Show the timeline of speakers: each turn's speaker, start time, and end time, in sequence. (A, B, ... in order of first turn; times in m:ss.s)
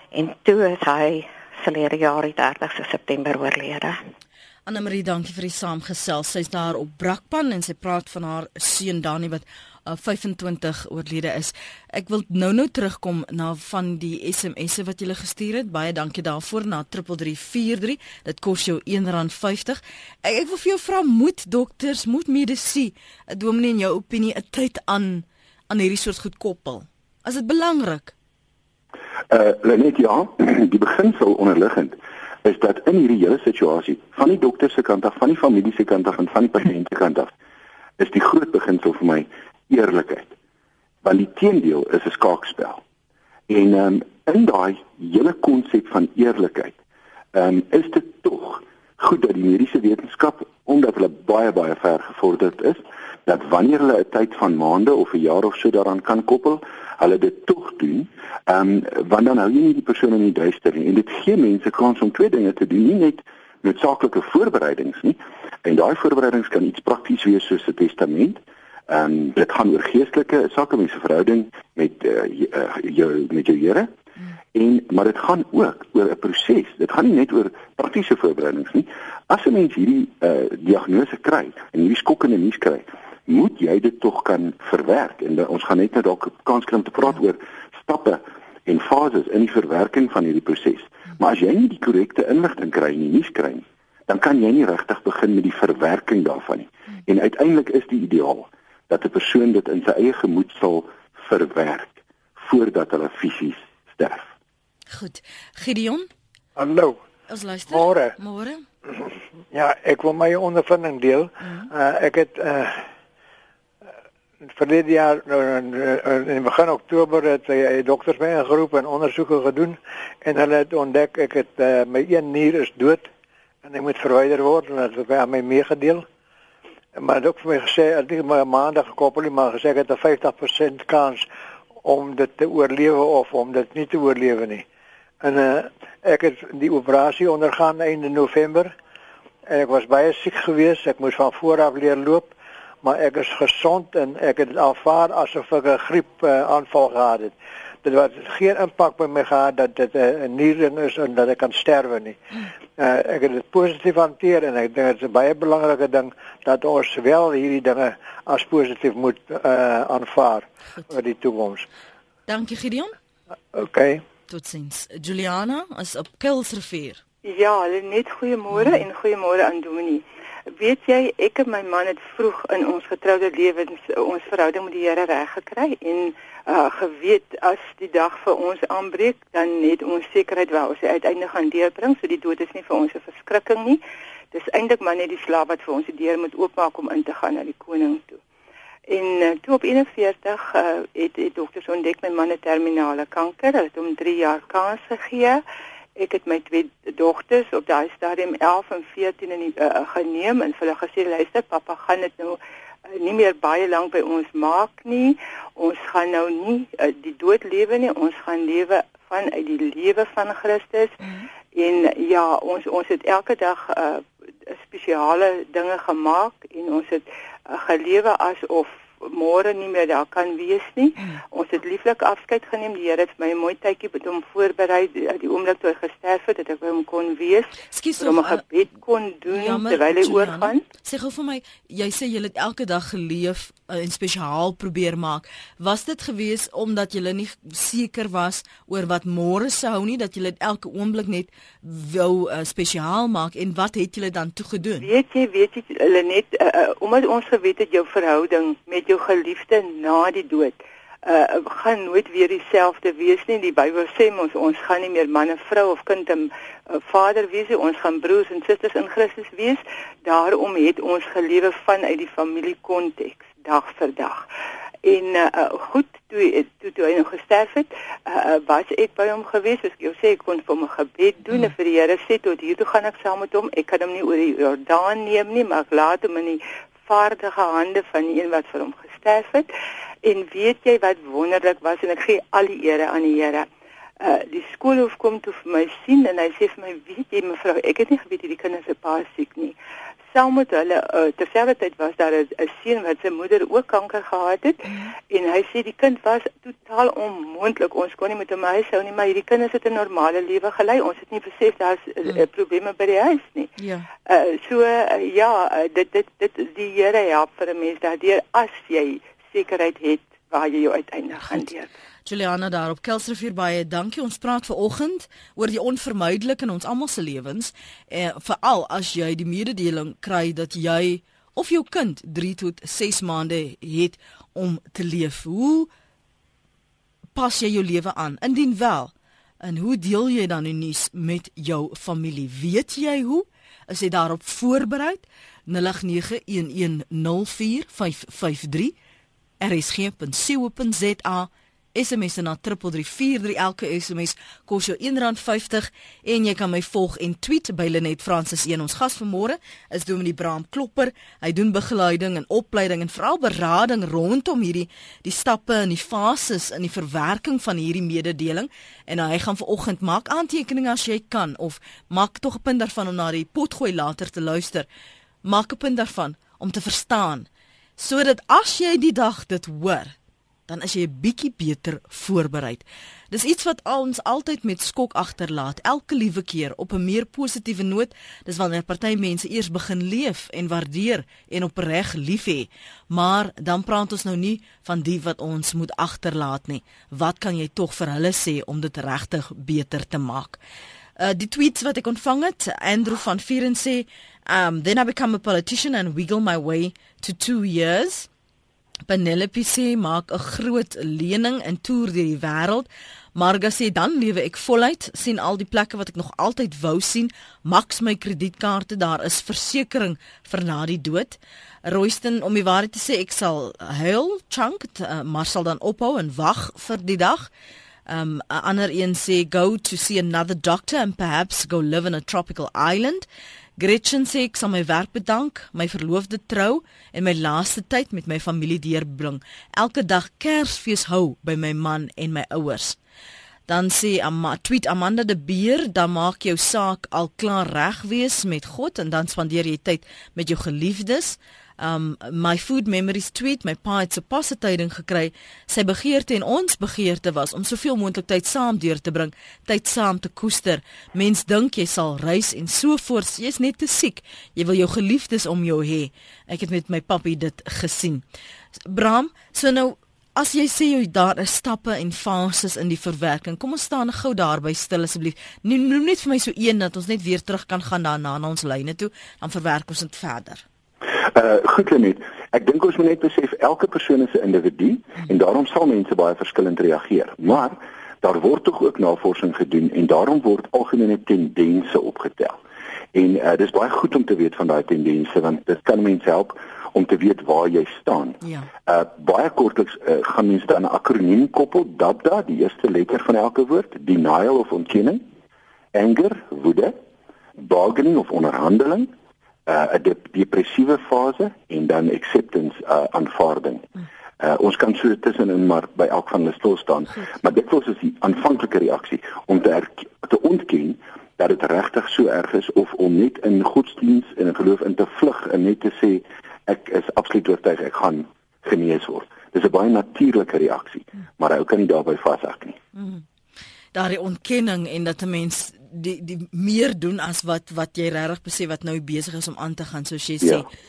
0:00.1-0:04.0 A
0:04.7-0:28.1 B
0:29.3-0:37.3 C
0:38.0-0:40.3 C
0:41.0-0:42.8 C
0:43.5-0:46.8 C
0:47.3-1:13.9 C
1:14.5-1:44.3 C
1:44.9-1:46.1 B
1:46.6-1:47.0 D
1:47.3-1:48.6 B
1:47.7-1:48.2 D
1:49.5-1:52.8 D
1:51.4-1:51.7 B
1:54.4-2:03.1 D
2:03.6-2:06.1 D
2:07.0-2:11.3 D
2:11.8-2:14.7 D
2:15.2-2:18.8 D
2:19.5-2:32.2 D
2:32.8-2:41.7 D
2:42.3-2:42.9 B
2:43.5-2:44.0 D
2:44.3-2:47.0 B
2:47.2-2:50.0 E
2:48.5-2:48.8 B
2:50.6-3:03.8 E
3:04.3-3:08.2 E
3:08.9-3:15.4 E
3:16.0-3:31.0 E
3:31.0-3:31.3 B
3:31.5-3:50.6 E
3:47.7-3:48.4 B
3:49.3-4:04.9 B
4:04.8-4:24.3 E
4:24.8-4:39.5 E
4:40.0-4:43.5 E
4:44.0-4:49.6 E
4:50.1-5:03.5 E
4:54.6-4:54.9 B
5:03.6-5:03.9 B
5:04.1-5:11.7 E
5:12.1-5:25.7 B
5:27.2-5:38.7 B
5:39.4-6:04.7 B
6:05.2-6:07.3 B
6:07.8-6:10.0 B
6:10.5-6:30.4 B
6:31.0-6:38.1 B
6:38.9-6:57.3 B
6:57.9-7:03.1 B
7:03.6-7:12.8 B
7:13.5-7:38.0 B
7:38.7-7:50.4 B
7:51.1-8:02.4 C
8:02.9-8:15.1 C
8:08.2-8:08.5 B
8:15.7-8:16.8 C
8:17.4-8:18.9 C
8:19.5-8:23.7 C
8:24.2-8:42.6 C
8:42.7-8:43.0 B
8:43.7-8:50.5 B